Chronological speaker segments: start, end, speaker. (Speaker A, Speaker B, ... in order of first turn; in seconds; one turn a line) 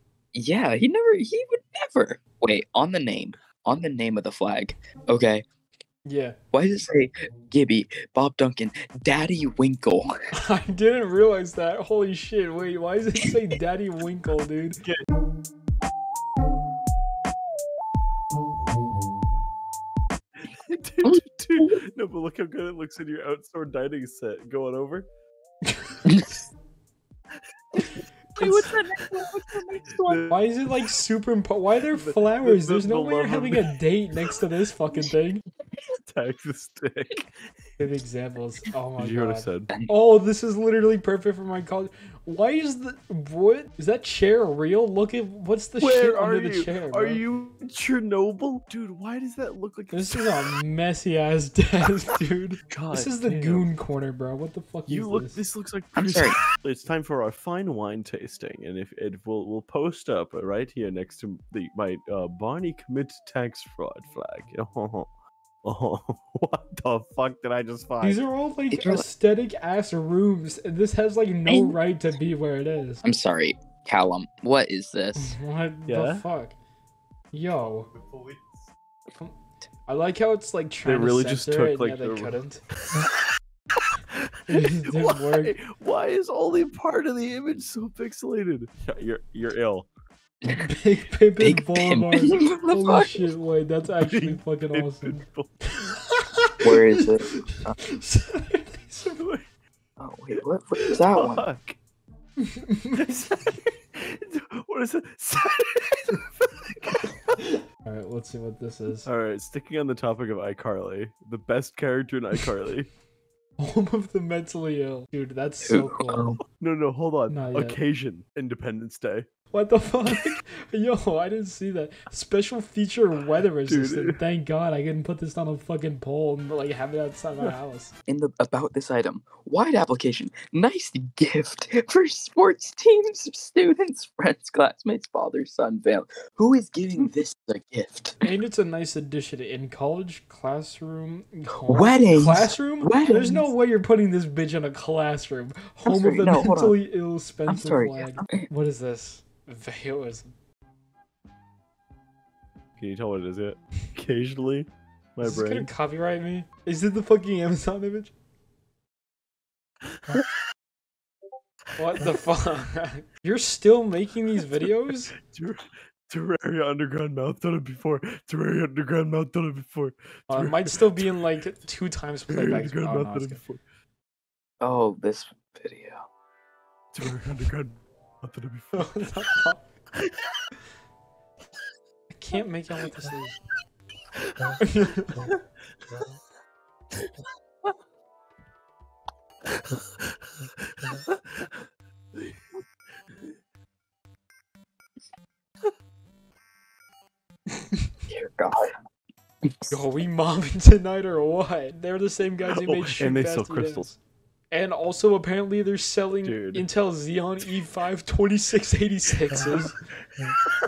Speaker A: 0.3-5.5
Speaker B: 6.1-6.4
Speaker A: 6.5-10.2
Speaker B: 10.3-14.8
Speaker C: 20.4-25.1
Speaker A: 21.0-21.8
Speaker A: 28.4-30.2
Speaker B: 28.4-28.7
Speaker C: 30.0-30.3
Speaker B: 30.3-35.5
Speaker C: 31.9-33.7
Speaker C: 36.1-37.4
Speaker B: 37.8-47.2
Speaker C: 39.0-39.7
Speaker C: 45.8-50.3
Speaker B: 49.9-55.4
Speaker C: 52.7-53.7
Speaker C: 54.9-65.1
Speaker A: 56.0-56.4
Speaker C: 65.6-68.2
Speaker B: 68.0-73.0
Speaker A: 68.7-69.0
Speaker A: 71.5-71.8
Speaker A: 73.0-75.4
Speaker B: 75.2-76.5
Speaker C: 75.9-76.2
Speaker B: 77.3-77.9
Speaker C: 77.9-78.7
Speaker B: 79.9-82.6
Speaker C: 80.8-82.3
Speaker B: 84.5-85.6
Speaker C: 84.9-89.9
Speaker B: 90.5-95.2
Speaker A: 91.4-93.3
Speaker C: 94.0-95.5
Speaker B: 95.8-99.2
Speaker A: 96.6-97.8
Speaker C: 99.2-99.4
Speaker A: 100.0-101.5
Speaker C: 101.2-101.8
Speaker B: 102.5-103.2
Speaker C: 103.0-107.2
Speaker B: 107.5-109.1
Speaker C: 109.0-112.9
Speaker B: 113.6-116.3
Speaker A: 115.6-116.4
Speaker C: 116.5-119.3
Speaker B: 117.3-117.8
Speaker B: 119.5-127.9
Speaker C: 123.7-124.2
Speaker A: 128.1-138.2
Speaker B: 138.2-150.3
Speaker A: 141.7-143.5
Speaker A: 145.9-146.8
Speaker A: 147.5-148.5
Speaker C: 152.8-155.7
Speaker B: 155.2-158.1
Speaker B: 161.8-165.1
Speaker C: 165.2-171.1
Speaker B: 170.3-173.4
Speaker C: 172.3-173.6
Speaker A: 174.6-176.1
Speaker C: 176.9-178.9
Speaker B: 178.8-179.6
Speaker B: 182.1-183.4
Speaker B: 184.6-185.3
Speaker C: 190.7-191.2
Speaker A: 198.1-198.8
Speaker A: 199.5-199.8
Speaker B: 199.7-204.0
Speaker C: 202.6-203.9
Speaker B: 204.5-209.8
Speaker C: 206.2-206.7
Speaker C: 209.3-209.7